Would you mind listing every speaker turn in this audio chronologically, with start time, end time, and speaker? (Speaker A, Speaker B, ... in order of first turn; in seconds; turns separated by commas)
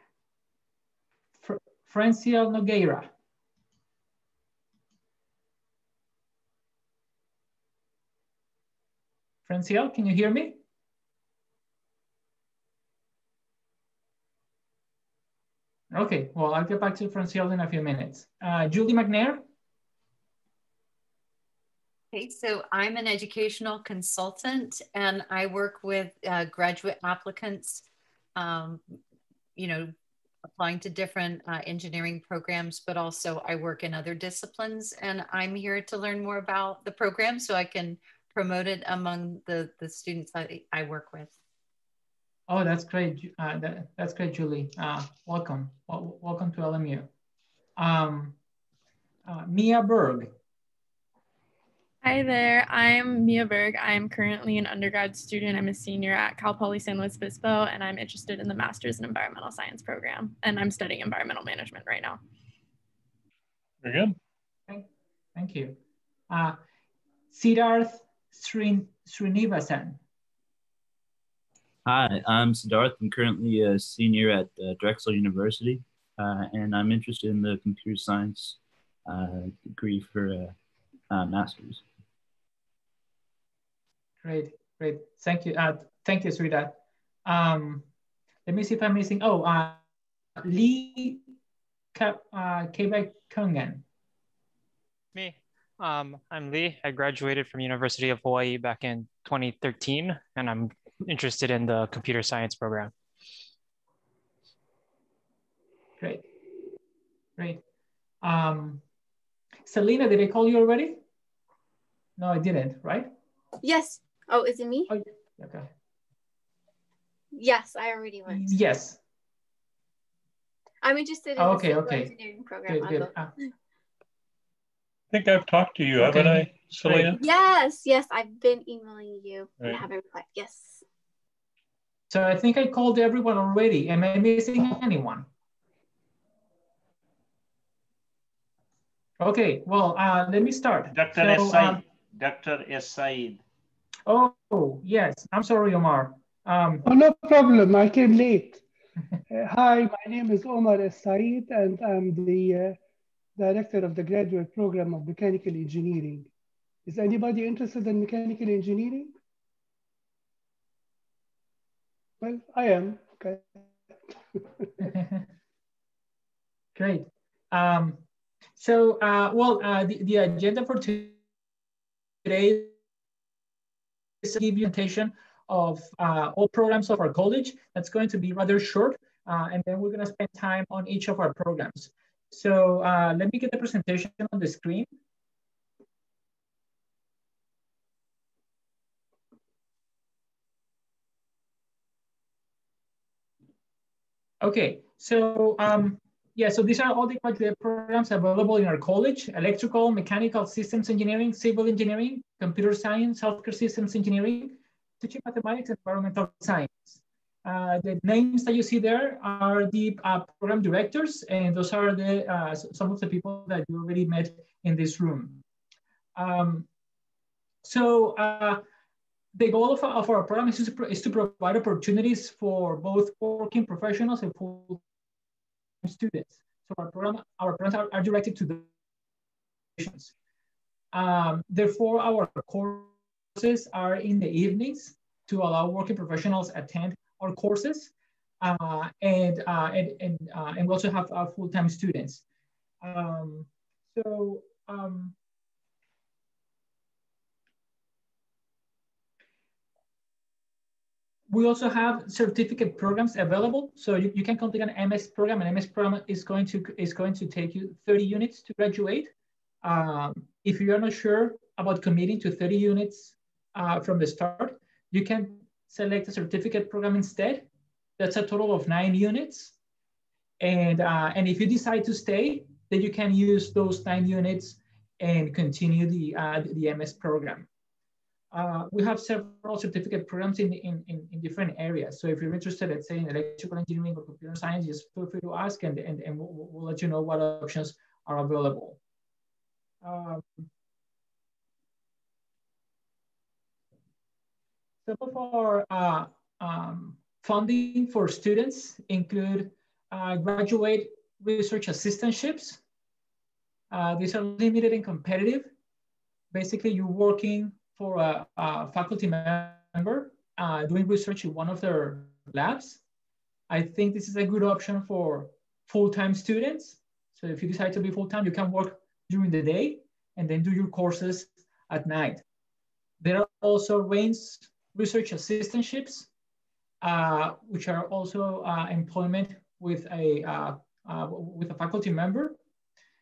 Speaker A: 1.4-3.1, Speaker A: 9.4-10.6, Speaker A: 15.9-19.4, Speaker B: 22.1-27.8, Speaker B: 28.4-29.0, Speaker B: 29.6-29.9, Speaker B: 30.5-41.3, Speaker A: 42.5-47.1, Speaker A: 47.8-48.4, Speaker A: 49.2-50.3, Speaker C: 52.0-62.2, Speaker D: 63.8-64.2, Speaker A: 64.7-65.8, Speaker A: 66.3-66.6, Speaker A: 67.3-70.0, Speaker E: 71.8-80.5, Speaker E: 81.1-81.8, Speaker A: 84.2-87.8, Speaker A: 88.5-89.8, Speaker A: 90.4-91.2, Speaker A: 91.9-93.8, Speaker F: 95.1-102.9, Speaker A: 108.2-108.8, Speaker A: 109.7-111.0, Speaker A: 112.2-113.1, Speaker G: 113.6-114.9, Speaker A: 114.9-115.7, Speaker G: 117.3-118.5, Speaker A: 118.3-119.0, Speaker G: 120.8-123.1, Speaker A: 121.4-122.1, Speaker A: 122.7-123.3, Speaker D: 125.1-127.2, Speaker A: 126.0-127.1, Speaker G: 127.1-130.8, Speaker A: 132.1-135.3, Speaker A: 139.2-141.8, Speaker H: 140.9-143.4, Speaker A: 144.1-146.8, Speaker I: 146.8-148.6, Speaker I: 149.3-152.8, Speaker I: 153.4-156.3, Speaker I: 156.8-159.1, Speaker I: 162.2-164.7, Speaker A: 164.8-165.2, Speaker A: 166.7-168.0, Speaker A: 168.6-171.2, Speaker A: 172.2-172.7, Speaker A: 174.2-184.9, Speaker A: 194.4-215.4, Speaker A: 216.2-216.7, Speaker A: 217.6-218.6, Speaker A: 219.3-224.8, Speaker A: 225.8-228.7, Speaker A: 229.8-230.1, Speaker A: 230.9-242.2, Speaker A: 242.8-245.1, Speaker A: 251.3-259.1, Speaker A: 259.6-267.5, Speaker A: 268.0-269.5, Speaker A: 270.4-277.5, Speaker A: 278.3-288.8, Speaker A: 289.8-290.4, Speaker A: 294.9-302.6, Speaker A: 303.7-305.5, Speaker A: 306.3-312.8, Speaker A: 313.5-322.2, Speaker A: 323.0-326.1, Speaker A: 326.8-332.4